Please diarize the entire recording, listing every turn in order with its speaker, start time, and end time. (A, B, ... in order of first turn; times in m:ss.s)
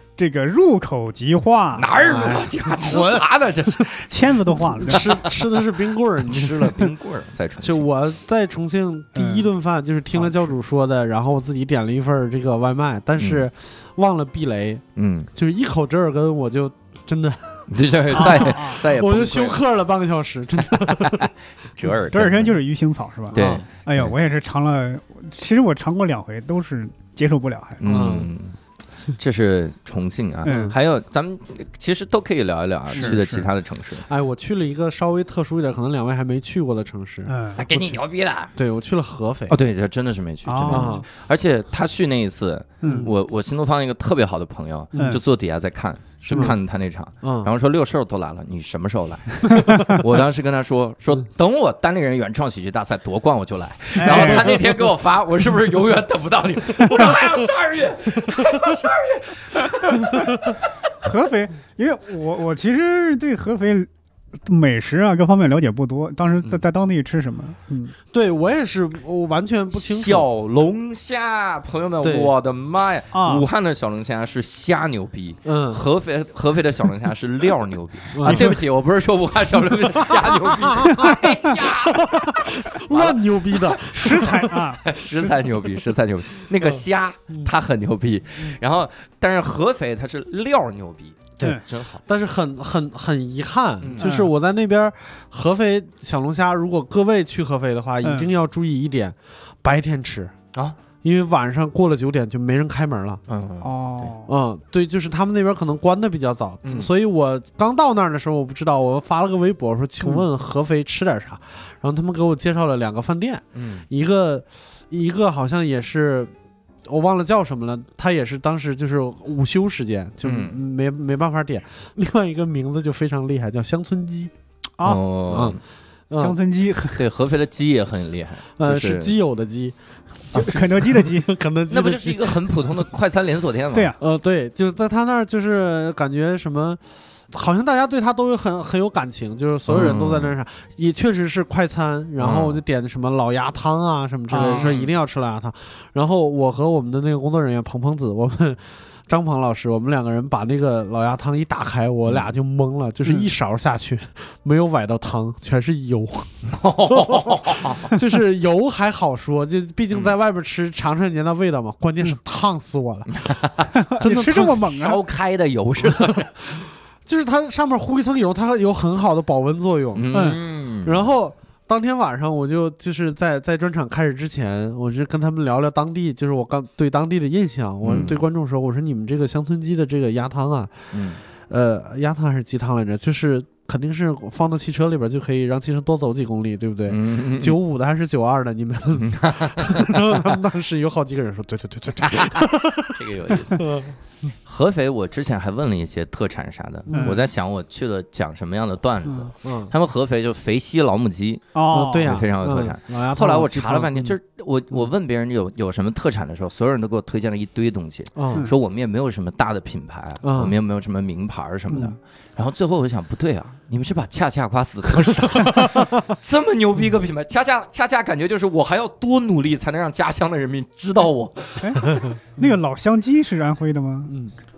0:00.2-0:01.9 A
0:01.7-0:04.3 B
0:02.0-0:03.0 C
0:02.8-0:03.2 A
0:04.1-0:05.1 A
0:04.8-0:06.9 C
0:04.9-0:05.6 B
0:06.2-0:07.9 B
0:07.6-0:21.3 C
0:09.2-0:09.5 A
0:13.2-0:13.5 B
0:15.0-0:15.3 B
0:17.7-0:19.6 B
0:18.1-0:18.8 A
0:20.7-0:22.6 B
0:22.1-0:27.8 A
0:23.3-0:24.1 B
0:23.3-0:23.6 C
0:27.8-0:28.6 B
0:27.8-0:28.3 C
0:29.1-0:34.1 B
0:30.4-0:30.7 A
0:30.5-0:30.8 C
0:32.9-0:33.3 C
0:32.9-0:33.4 A
0:34.1-0:38.0 C
0:37.3-0:37.6 A
0:37.6-0:38.5 B
0:38.6-0:39.6 C
0:39.5-1:00.6 B
0:40.5-0:41.0 A
0:40.7-0:41.0 C
0:42.8-0:43.1 A
0:42.8-0:43.1 C
0:44.9-0:45.2 C
0:46.3-0:46.6 C
0:47.2-0:47.5 C
0:54.0-0:54.5 A
0:54.0-0:54.8 C
1:01.0-1:03.9 A
1:04.4-1:08.0 A
1:08.1-1:10.3 C
1:09.7-1:32.0 B
1:12.0-1:12.3 C
1:13.1-1:13.4 A
1:15.4-1:15.8 C
1:18.1-1:18.5 C
1:18.2-1:18.6 A
1:20.0-1:24.6 C
1:23.9-1:24.8 A
1:26.6-1:27.5 C
1:31.4-1:40.3 C
1:33.8-1:34.1 B
1:34.0-1:34.3 A
1:38.0-1:38.3 A
1:41.0-1:43.2 C
1:43.3-1:44.1 B
1:43.6-1:44.3 A
1:44.3-1:56.3 C
1:46.6-1:46.9 B
1:53.6-1:53.8 B
1:56.8-2:04.3 C
2:00.2-2:00.6 B
2:04.8-2:05.6 B
2:05.3-2:06.4 C
2:06.2-2:07.0 A
2:06.9-2:09.1 B
2:08.6-2:09.8 C
2:10.3-2:11.3 A
2:10.3-2:10.6 B
2:11.0-2:12.7 C
2:11.7-2:13.9 B
2:14.0-2:43.4 C
2:19.7-2:20.3 B
2:22.2-2:22.6 B
2:24.3-2:24.7 A
2:24.4-2:24.9 B
2:36.5-2:38.0 B
2:43.1-2:46.6 B
2:43.7-2:45.0 A
2:44.0-2:44.6 C
2:45.8-2:50.2 C
2:50.0-2:51.1 B
2:50.1-2:50.4 A
2:50.8-3:00.9 C
2:57.8-2:58.2 B
3:00.9-3:01.2 B
3:01.4-3:13.0 C
3:06.9-3:07.6 B
3:09.0-3:10.4 B
3:12.0-3:13.8 B
3:13.5-3:14.0 C
3:14.4-3:42.0 B
3:16.9-3:17.2 C
3:16.9-3:17.2 A
3:19.4-3:19.7 C
3:21.5-3:22.1 A
3:21.7-3:24.2 C
3:28.2-3:28.5 C
3:30.2-3:30.6 C
3:31.7-3:32.0 C
3:35.4-3:35.9 C
3:41.6-3:44.1 A
3:44.1-3:44.3 C